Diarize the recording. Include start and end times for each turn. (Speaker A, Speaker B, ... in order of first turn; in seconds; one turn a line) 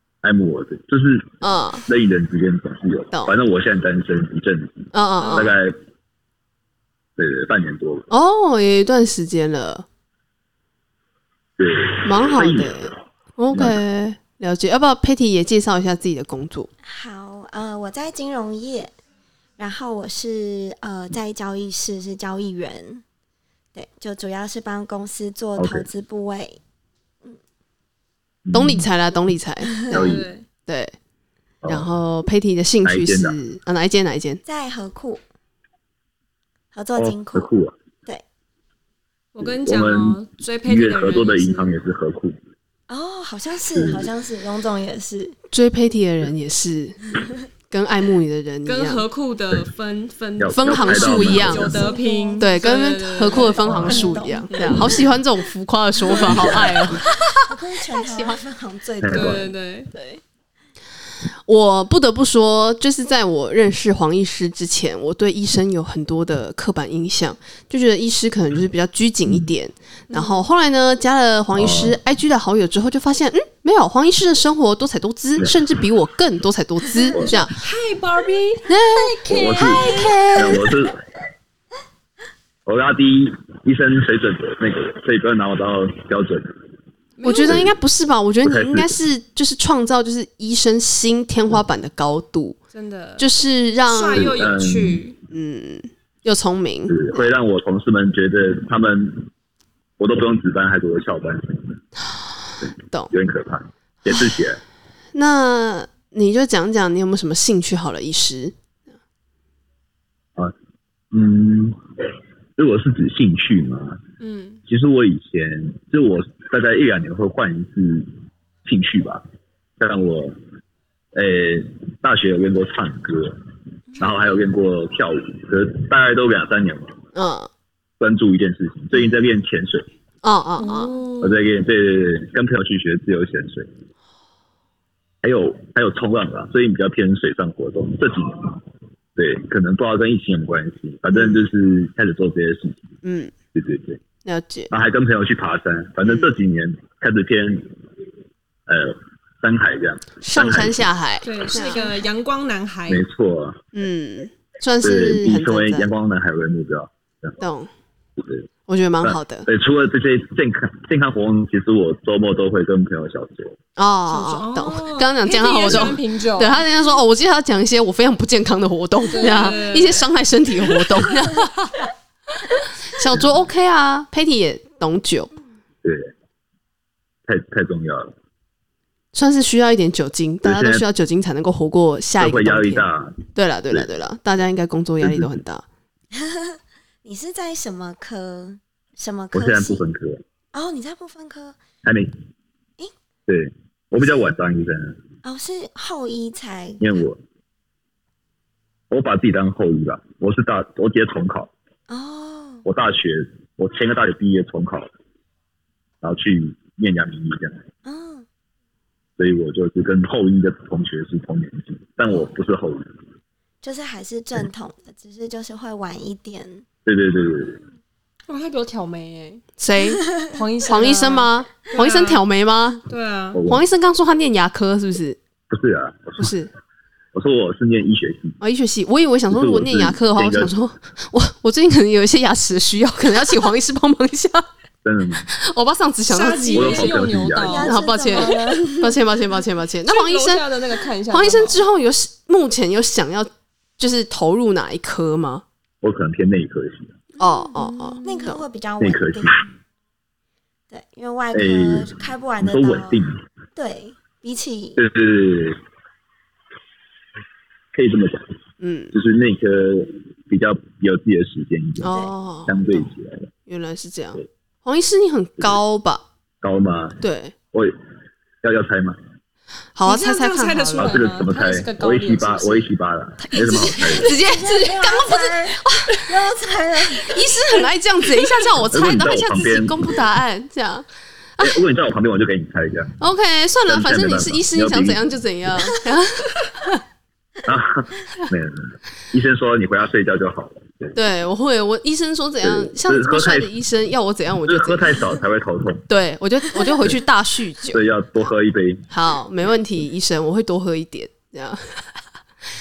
Speaker A: 0.2-5.8
Speaker B: 1.4-1.9
Speaker B: 3.1-3.4
Speaker B: 4.9-5.5
Speaker C: 5.2-5.5
Speaker A: 7.2-8.1
Speaker B: 8.1-9.9
Speaker A: 11.6-12.9
Speaker B: 12.1-16.7
Speaker A: 13.5-13.8
Speaker D: 16.8-18.9
Speaker D: 19.6-23.0
Speaker D: 23.8-26.6
Speaker A: 25.6-25.9
Speaker A: 28.5-28.9
Speaker B: 28.5-29.9
Speaker D: 29.6-30.1
Speaker A: 29.9-30.3
Speaker C: 29.9-30.5
Speaker B: 30.7-30.9
Speaker A: 31.6-31.9
Speaker B: 31.7-34.4
Speaker A: 32.8-33.4
Speaker D: 34.4-35.2
Speaker D: 36.7-37.5
Speaker A: 37.0-37.7
Speaker C: 39.3-41.7
Speaker A: 39.4-42.4
Speaker D: 42.9-45.4
Speaker A: 43.7-44.1
Speaker B: 45.5-47.1
Speaker B: 47.7-49.1
Speaker C: 48.7-55.1
Speaker A: 50.4-51.9
Speaker B: 50.5-57.2
Speaker D: 51.3-52.6
Speaker A: 53.6-53.9
Speaker D: 53.6-55.1
Speaker C: 56.0-56.9
Speaker A: 56.2-57.0
Speaker D: 57.4-59.6
Speaker A: 59.0-59.5
Speaker C: 59.1-59.9
Speaker B: 61.5-77.6
Speaker C: 70.1-70.5
Speaker A: 71.5-72.0
Speaker C: 77.1-80.7
Speaker A: 77.1-77.5
Speaker B: 78.7-80.7
Speaker A: 79.3-81.0
Speaker A: 82.7-86.5
Speaker C: 87.2-87.7
Speaker B: 87.2-92.6
Speaker A: 87.4-87.8
Speaker A: 88.4-89.0
Speaker C: 92.7-93.3
Speaker B: 93.2-94.5
Speaker C: 93.9-95.2
Speaker A: 94.1-95.1
Speaker B: 95.3-97.3
Speaker A: 96.9-99.3
Speaker A: 100.0-101.8
Speaker A: 103.1-104.6
Speaker B: 105.2-108.5
Speaker A: 111.1-111.8
Speaker A: 112.6-114.0
Speaker C: 114.2-114.6
Speaker A: 114.7-118.1
Speaker A: 118.7-119.2
Speaker A: 119.8-120.4
Speaker A: 121.2-123.4
Speaker A: 124.0-127.0
Speaker B: 127.2-127.5
Speaker A: 128.0-129.9
Speaker B: 130.2-131.0
Speaker C: 130.6-131.4
Speaker A: 131.2-133.7
Speaker A: 135.2-138.6
Speaker A: 139.2-142.9
Speaker B: 143.0-143.3
Speaker A: 143.5-144.0
Speaker B: 144.2-144.7
Speaker A: 144.7-147.7
Speaker B: 146.1-146.4
Speaker A: 148.7-150.9
Speaker B: 150.2-152.0
Speaker C: 151.2-153.1
Speaker A: 152.9-153.6
Speaker B: 153.7-155.9
Speaker A: 154.8-157.4
Speaker B: 157.4-157.7
Speaker A: 158.2-158.5
Speaker B: 158.7-159.5
Speaker A: 159.0-163.6
Speaker B: 163.8-171.9
Speaker C: 164.1-166.7
Speaker C: 169.1-170.1
Speaker B: 172.8-175.3
Speaker A: 173.1-173.5
Speaker A: 175.8-176.1
Speaker A: 177.3-178.1
Speaker B: 179.1-185.6
Speaker A: 180.4-180.8
Speaker A: 182.2-184.0
Speaker A: 185.0-185.3
Speaker D: 186.1-189.9
Speaker A: 189.3-190.2
Speaker D: 190.5-191.6
Speaker A: 191.8-192.2
Speaker A: 193.3-195.0
Speaker D: 195.2-197.0
Speaker A: 196.8-197.2
Speaker A: 198.9-201.5
Speaker D: 201.9-202.7
Speaker A: 202.7-204.9
Speaker A: 206.0-207.6
Speaker D: 207.8-208.3
Speaker A: 209.2-212.8
Speaker D: 213.6-216.7
Speaker A: 216.9-217.6
Speaker C: 218.3-219.4
Speaker B: 219.6-222.9
Speaker C: 220.3-222.2
Speaker C: 222.9-223.4
Speaker A: 223.3-223.7
Speaker B: 223.5-225.2
Speaker A: 225.5-226.3
Speaker B: 226.2-226.5
Speaker A: 227.1-228.4
Speaker B: 228.4-234.4
Speaker A: 229.3-230.6
Speaker A: 234.8-235.3
Speaker B: 235.3-245.4
Speaker C: 236.1-238.6
Speaker A: 236.5-237.7
Speaker D: 237.3-239.1
Speaker C: 239.9-241.6
Speaker A: 245.8-246.9
Speaker B: 247.2-248.4
Speaker D: 247.2-249.5
Speaker A: 248.8-249.4
Speaker D: 250.7-254.8
Speaker A: 251.3-253.2
Speaker A: 254.8-255.6
Speaker A: 257.7-258.4
Speaker B: 258.6-258.9
Speaker A: 258.9-261.9
Speaker B: 261.8-262.9
Speaker D: 261.9-262.1
Speaker A: 262.5-263.3
Speaker B: 263.5-266.1
Speaker A: 266.4-267.0
Speaker B: 267.0-267.3
Speaker A: 268.4-269.0
Speaker B: 269.8-271.1
Speaker C: 269.8-272.7
Speaker A: 270.8-274.2
Speaker B: 273.3-276.1
Speaker D: 274.1-277.4
Speaker B: 277.1-280.9
Speaker A: 278.6-280.0
Speaker B: 281.4-281.6
Speaker A: 281.4-283.0
Speaker B: 283.0-286.8
Speaker A: 283.7-285.1
Speaker A: 287.4-291.0
Speaker B: 290.9-295.1
Speaker A: 292.4-293.5
Speaker A: 294.5-295.9
Speaker B: 295.9-298.3
Speaker A: 296.6-297.0
Speaker A: 297.7-298.9
Speaker B: 298.9-302.0